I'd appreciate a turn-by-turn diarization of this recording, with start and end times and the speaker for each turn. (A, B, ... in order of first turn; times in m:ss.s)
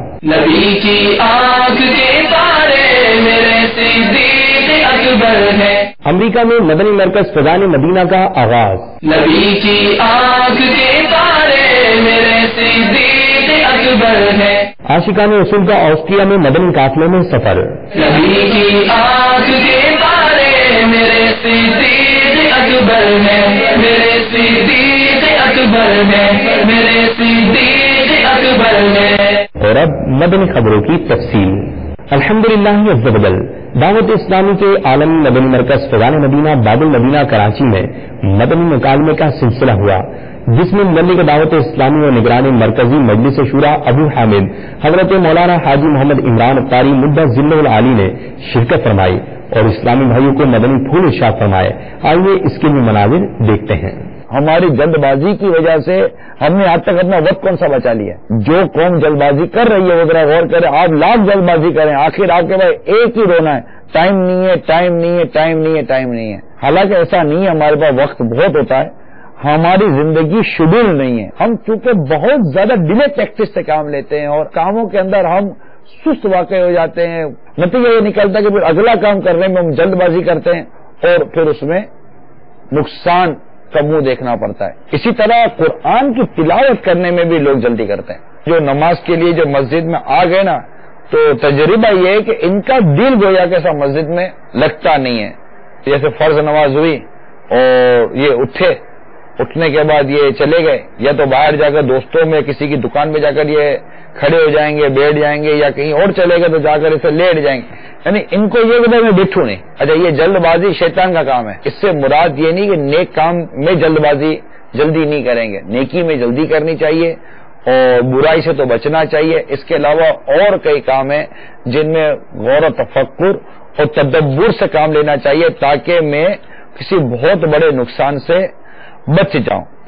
0:00.2-0:05.9 A
0:06.1-0:09.0 B
0:09.0-0:14.7 A
0:14.9-0:17.8 B
0:18.0-0:29.4 A
0:29.6-0:54.0 B
0:54.3-1:21.9 C
1:22.7-1:38.8 C
1:39.4-2:08.5 C
2:09.1-2:09.7 C